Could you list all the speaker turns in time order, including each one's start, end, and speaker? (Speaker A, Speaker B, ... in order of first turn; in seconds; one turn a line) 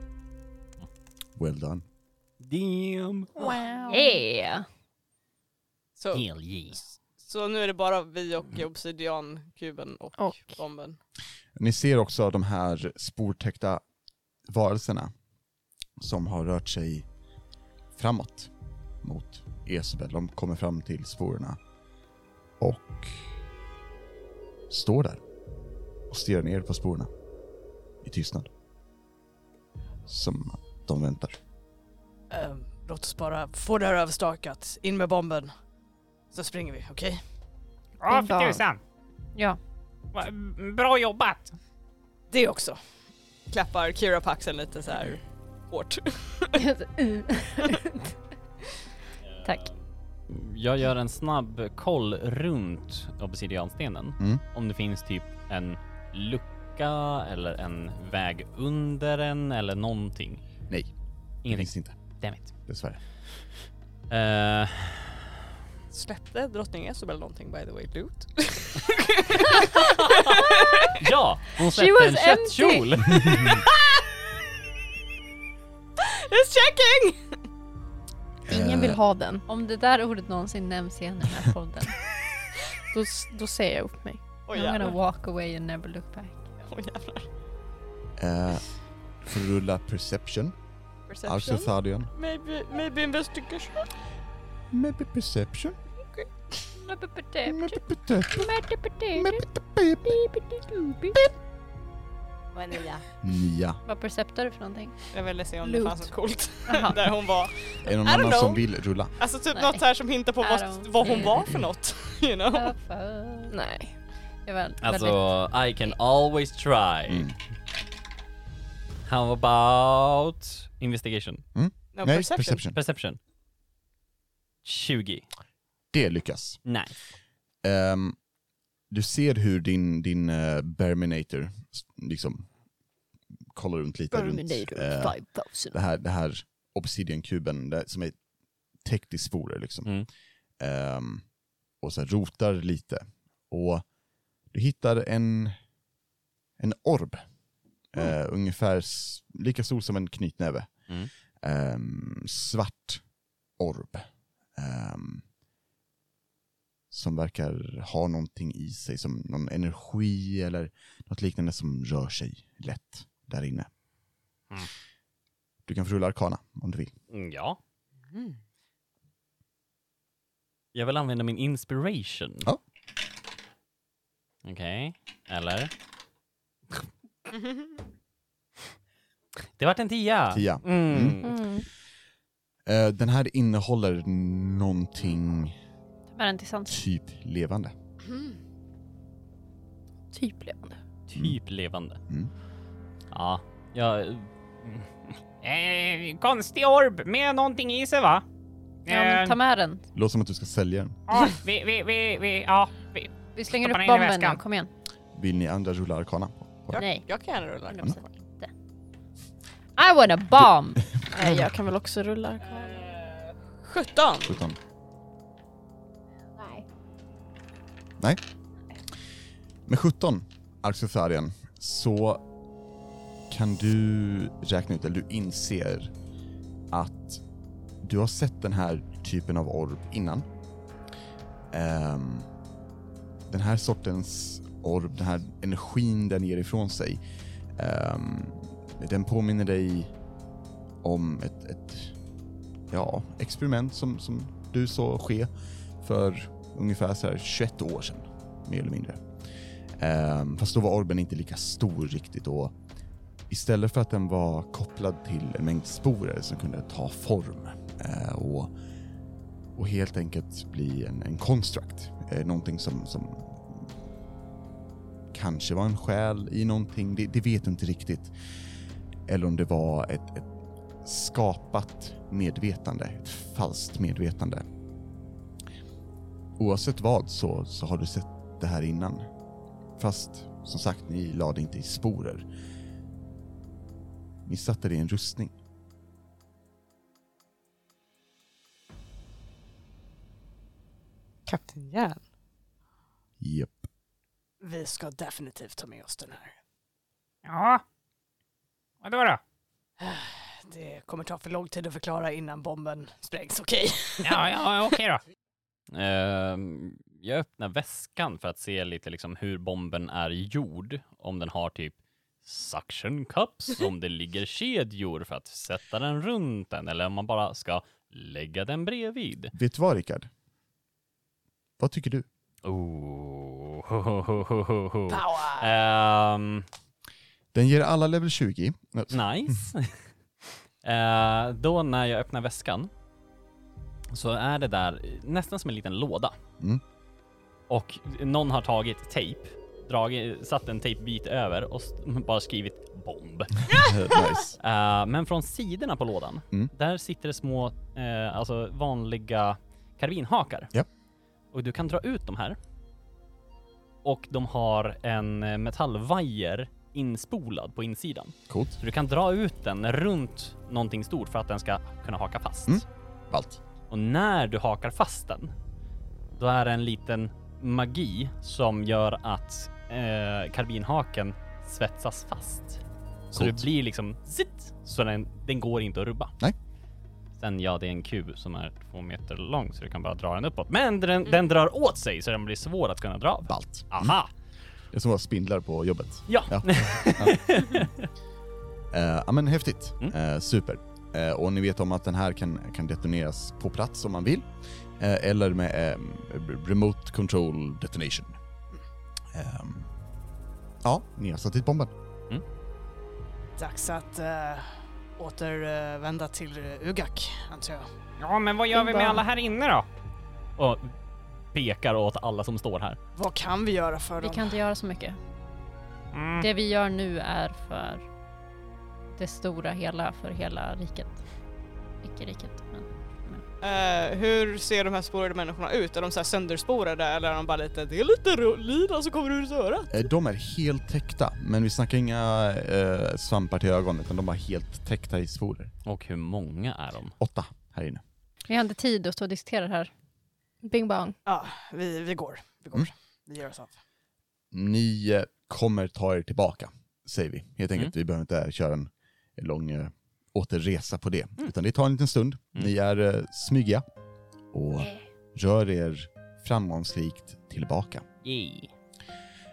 Speaker A: 1.4-1.8
Speaker B: 2.4-3.3
Speaker C: 3.4-4.2
Speaker D: 3.9-4.7
Speaker E: 6.0-11.0
Speaker B: 6.1-6.8
Speaker C: 10.2-10.6
Speaker A: 11.6-13.8
Speaker A: 14.5-15.1
Speaker A: 16.0-17.1
Speaker A: 17.9-18.5
Speaker A: 19.0-21.6
Speaker A: 22.6-23.3
Speaker A: 24.7-25.2
Speaker A: 26.1-27.1
Speaker A: 28.0-28.5
Speaker A: 30.1-31.4
Speaker E: 32.3-35.5
Speaker E: 36.3-37.2
Speaker F: 38.0-38.8
Speaker C: 38.1-38.7
Speaker F: 40.1-41.5
Speaker E: 42.3-42.8
Speaker E: 43.5-46.6
Speaker D: 46.7-47.7
Speaker B: 49.4-49.8
Speaker B: 50.3-60.4
Speaker B: 61.4-62.5
Speaker A: 61.5-62.0
Speaker A: 62.6-63.0
Speaker B: 64.1-65.2
Speaker E: 65.9-71.0
Speaker B: 70.1-70.4
Speaker B: 71.0-73.6
Speaker D: 71.6-73.2
Speaker E: 73.3-74.0
Speaker E: 76.3-77.2
Speaker A: 78.5-79.0
Speaker C: 78.5-79.5
Speaker D: 79.5-81.9
Speaker C: 82.9-84.2
Speaker E: 84.5-85.0
Speaker D: 84.5-86.5
Speaker E: 86.6-87.3
Speaker A: 88.2-88.7
Speaker A: 89.2-90.5
Speaker E: 91.1-93.9
Speaker A: 91.2-92.1
Speaker A: 94.7-95.8
Speaker D: 96.8-99.5
Speaker A: 97.5-98.5
Speaker A: 99.1-100.2
Speaker D: 100.0-101.2
Speaker E: 102.5-103.0
Speaker A: 103.2-103.8
Speaker D: 103.9-105.0
Speaker E: 105.1-108.6
Speaker C: 105.6-106.0
Speaker D: 106.7-107.0
Speaker A: 107.8-109.1
Speaker E: 109.2-112.7
Speaker D: 109.5-109.8
Speaker D: 110.4-111.3
Speaker A: 111.2-111.7
Speaker D: 112.5-113.5
Speaker C: 113.5-113.9
Speaker D: 114.5-115.3
Speaker B: 114.8-117.3
Speaker A: 117.1-117.3
Speaker B: 119.1-121.5
Speaker A: 121.5-122.8
Speaker E: 121.9-122.6
Speaker B: 122.6-123.2
Speaker B: 124.6-125.3
Speaker A: 125.9-126.7
Speaker B: 126.7-127.0
Speaker A: 127.6-128.2
Speaker A: 128.9-132.5
Speaker A: 133.5-138.2
Speaker C: 134.1-135.8
Speaker A: 138.8-143.9
Speaker A: 144.5-145.6
Speaker A: 146.6-147.3
Speaker A: 147.9-153.1
Speaker A: 153.6-155.3
Speaker A: 156.9-163.7
Speaker A: 165.7-166.9
Speaker B: 167.1-167.6
Speaker E: 168.1-168.4
Speaker B: 170.7-172.5
Speaker B: 174.4-175.7
Speaker E: 177.3-177.6
Speaker B: 179.6-181.4
Speaker A: 180.3-181.2
Speaker C: 181.2-181.7
Speaker A: 182.7-185.6
Speaker D: 186.1-186.8
Speaker A: 186.7-187.7
Speaker C: 190.1-190.8
Speaker B: 191.1-192.0
Speaker B: 193.1-194.9
Speaker F: 195.4-198.2
Speaker F: 198.9-199.4
Speaker D: 198.9-199.9
Speaker A: 199.9-201.0
Speaker F: 201.1-204.4
Speaker D: 203.3-204.7
Speaker A: 205.1-206.8
Speaker E: 206.7-208.2
Speaker D: 206.7-207.1
Speaker D: 207.6-208.5
Speaker D: 209.8-210.8
Speaker C: 211.1-212.9
Speaker E: 213.6-214.4
Speaker A: 214.3-214.6
Speaker C: 216.4-216.7
Speaker A: 219.7-222.2
Speaker A: 223.3-225.9
Speaker A: 226.7-227.2
Speaker A: 227.8-230.3
Speaker A: 231.5-232.3
Speaker A: 233.3-237.0
Speaker A: 237.6-239.9
Speaker A: 240.8-242.0
Speaker A: 242.7-245.3
Speaker A: 245.8-249.1
Speaker A: 249.8-252.6
Speaker A: 253.3-258.5
Speaker A: 259.6-263.7
Speaker A: 265.1-268.1
Speaker A: 269.1-270.3
Speaker A: 270.8-274.4
Speaker A: 276.4-279.1
Speaker A: 279.8-282.3
Speaker A: 284.3-285.4
Speaker E: 291.3-292.0
Speaker A: 293.2-293.6
Speaker E: 294.4-296.4
Speaker F: 297.3-297.6
Speaker F: 298.8-299.2
Speaker E: 299.8-304.3
Speaker F: 304.0-305.0
Speaker B: 305.7-319.3
Speaker A: 319.4-320.1
Speaker A: 321.6-322.1
Speaker B: 322.4-326.5
Speaker E: 324.9-325.5
Speaker A: 327.3-329.4
Speaker B: 328.9-329.8
Speaker B: 330.6-332.7
Speaker B: 333.9-336.1
Speaker B: 337.5-343.6
Speaker E: 343.5-343.8
Speaker A: 343.5-344.4
Speaker B: 344.4-350.5
Speaker B: 351.3-352.4
Speaker B: 353.8-362.6
Speaker A: 358.3-358.6
Speaker A: 362.5-363.4
Speaker B: 363.7-365.3
Speaker B: 366.2-376.1
Speaker A: 373.1-373.5
Speaker B: 377.2-384.1
Speaker A: 383.3-384.0
Speaker A: 384.7-387.7
Speaker B: 386.1-387.9
Speaker A: 388.7-398.2
Speaker A: 399.1-399.7
Speaker A: 400.6-401.7
Speaker E: 403.4-407.7
Speaker F: 408.0-409.7
Speaker C: 408.5-409.0
Speaker B: 410.4-410.7
Speaker B: 411.3-412.8
Speaker E: 413.0-414.3
Speaker D: 414.0-415.0
Speaker F: 415.9-416.3
Speaker D: 416.2-417.8
Speaker D: 419.0-421.0
Speaker D: 421.8-423.2
Speaker E: 423.4-429.7
Speaker A: 429.7-435.5
Speaker B: 435.7-437.0
Speaker A: 437.0-437.8
Speaker D: 438.3-439.7
Speaker C: 440.4-441.0
Speaker E: 441.1-443.6
Speaker A: 444.3-453.6
Speaker A: 454.3-457.9
Speaker B: 458.1-458.5